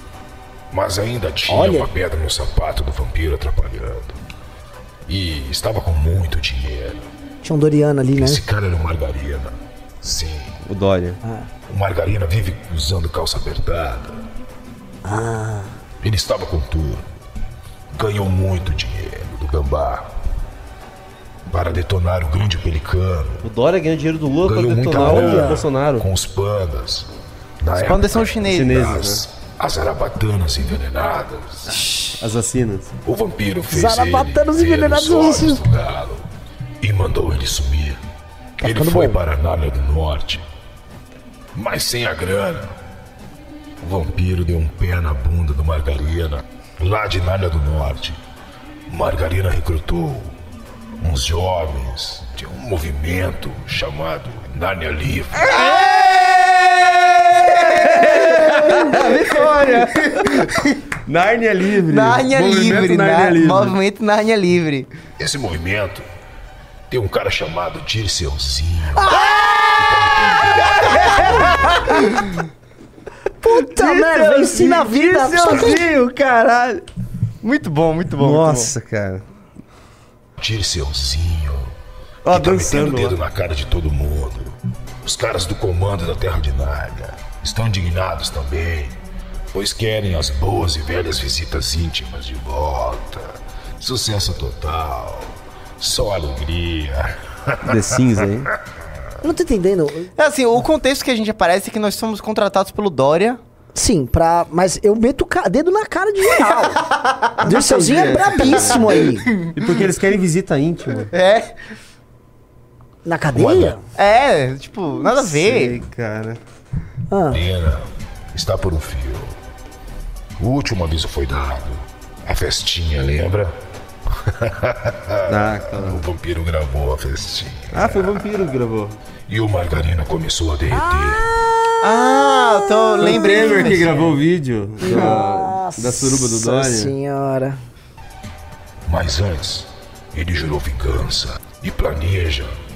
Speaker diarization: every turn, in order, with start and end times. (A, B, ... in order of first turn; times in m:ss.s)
0:00.7-0:04.2 A
0:01.5-0:01.9 B
0:05.1-0:07.1 A
0:07.4-0:08.4 B
0:08.2-0:10.6 A
0:10.6-0:11.2 C
0:11.7-0:14.2 A
0:15.0-0:15.8 B
0:16.0-0:17.1 A
0:17.9-0:20.1 A
0:21.5-0:23.5 A
0:23.4-0:26.1 C
0:24.4-0:27.1 A
0:24.9-0:25.6 B
0:27.6-0:31.7 A
0:27.8-0:28.8 D
0:28.2-0:29.3 C
0:31.7-0:32.2 D
0:32.2-0:33.0 C
0:33.0-0:36.2 A
0:33.7-0:35.6 B
0:36.8-0:38.0 A
0:38.6-0:39.2 B
0:38.6-0:40.4 A
0:41.6-0:42.7 A
0:43.8-0:48.2 A
0:48.9-0:50.4 A
0:51.0-0:55.6 A
0:55.3-1:03.8 C
0:57.8-0:58.4 D
0:59.1-0:59.5 D
1:01.9-1:04.9 D
1:05.2-1:06.1 A
1:06.9-1:11.9 A
1:08.9-1:12.2 B
1:13.4-1:15.8 B
1:13.6-1:16.8 C
1:17.4-1:18.7 D
1:18.2-1:19.2 C
1:20.4-1:21.7 A
1:22.2-1:23.2 C
1:22.3-1:29.0 A
1:29.5-1:38.4 A
1:37.6-1:38.5 C
1:39.2-1:40.1 B
1:40.2-1:43.4 D
1:43.8-1:46.8 B
1:46.5-1:49.8 D
1:47.4-1:49.3 B
1:47.7-1:49.0 C
1:49.6-1:51.1 C
1:51.1-1:51.6 D
1:53.0-1:53.8 B
1:53.4-1:53.7 C
1:54.0-1:55.8 D
1:55.1-1:56.4 C
1:57.1-1:57.4 B
1:57.3-1:59.3 A
2:00.4-2:03.5 A
2:04.3-2:08.4 A
2:05.3-2:06.0 C
2:07.7-2:09.0 C
2:09.3-2:11.3 A
2:10.7-2:12.3 B
2:11.8-2:14.1 D
2:13.0-2:16.9 C
2:13.2-2:13.7 B
2:14.8-2:17.6 B
2:18.9-2:22.5 A